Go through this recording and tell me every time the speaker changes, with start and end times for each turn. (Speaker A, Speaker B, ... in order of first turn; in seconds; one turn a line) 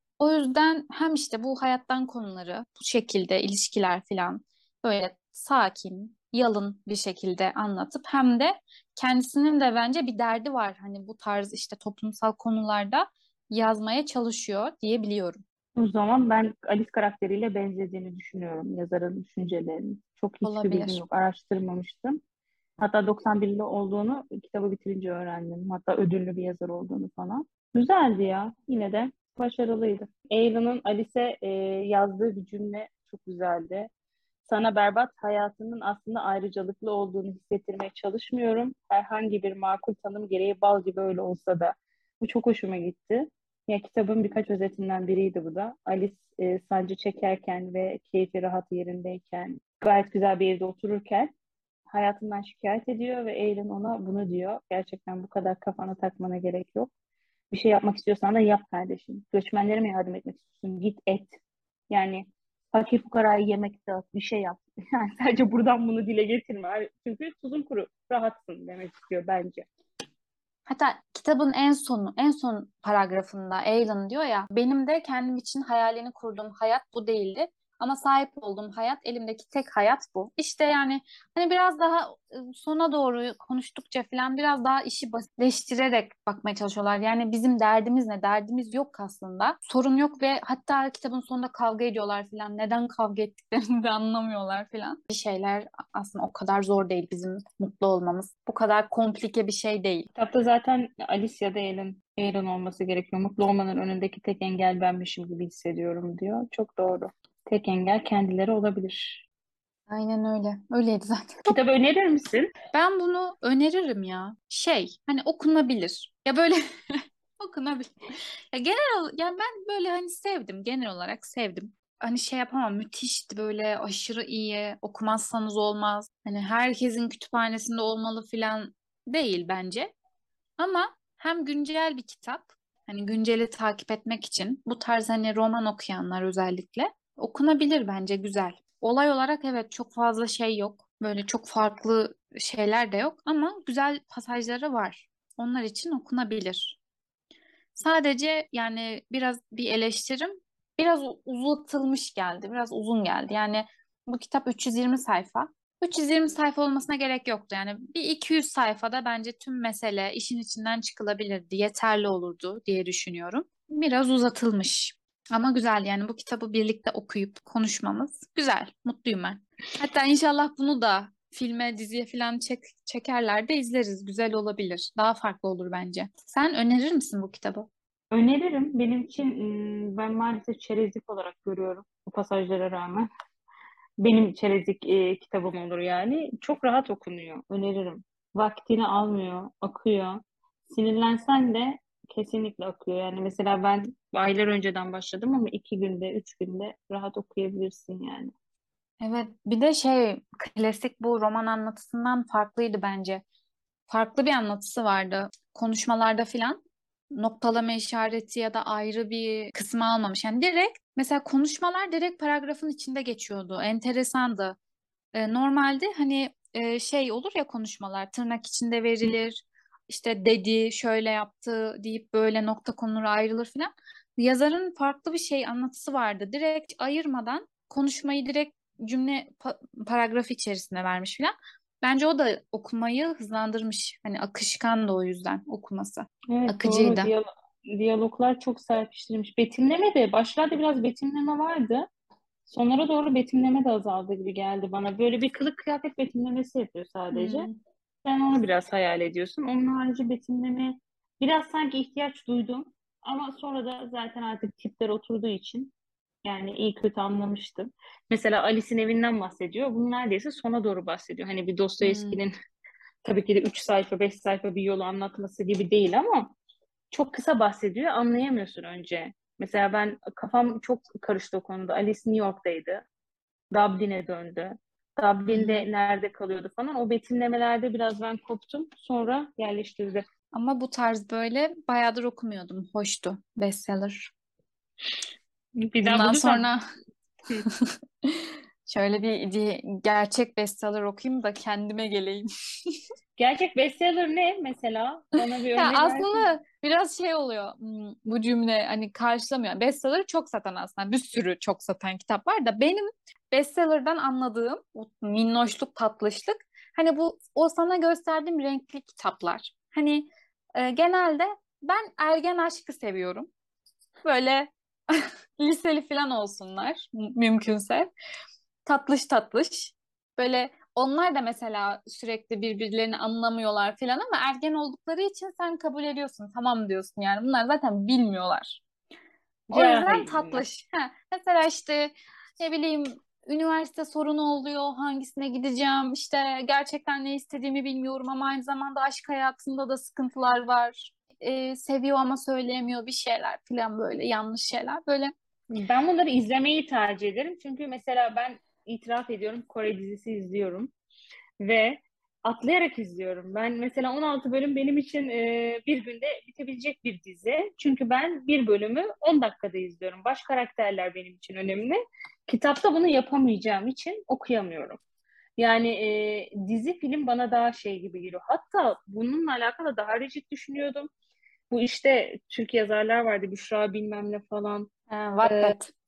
Speaker A: 0.2-15.4
Speaker B: 15.8-22.2
Speaker A: 20.4-21.0
Speaker B: 22.8-33.9
Speaker B: 34.4-51.3
Speaker B: 51.9-56.9
Speaker B: 57.5-61.4
Speaker B: 61.9-69.7
Speaker A: 70.7-100.1
Speaker B: 100.1-109.2
Speaker A: 109.9-111.6
Speaker B: 111.5-112.5
Speaker A: 112.7-117.9
Speaker A: 118.5-129.9
Speaker A: 130.6-146.8
Speaker A: 147.7-177.7
Speaker B: 178.1-183.1
Speaker B: 184.0-198.3
Speaker A: 199.0-203.2
Speaker A: 203.9-206.6
Speaker A: 207.1-214.6
Speaker A: 215.1-237.1
Speaker B: 236.3-241.9
Speaker B: 242.5-247.5
Speaker A: 247.1-247.6
Speaker B: 248.0-255.7
Speaker B: 256.2-262.3
Speaker A: 261.8-262.2
Speaker B: 263.0-266.3
Speaker B: 266.9-272.8
Speaker B: 273.5-280.0
Speaker A: 275.3-275.6
Speaker A: 280.3-284.1
Speaker B: 285.6-286.5
Speaker A: 285.8-286.6
Speaker A: 287.5-292.3
Speaker B: 293.2-296.3
Speaker A: 295.5-313.3
Speaker A: 314.0-317.9
Speaker A: 318.6-328.6
Speaker B: 329.5-330.4
Speaker A: 329.5-345.1
Speaker B: 345.5-350.7
Speaker B: 351.4-361.8
Speaker B: 362.3-364.8
Speaker B: 365.4-370.9
Speaker B: 371.5-374.7
Speaker A: 374.9-375.7
Speaker B: 375.2-375.5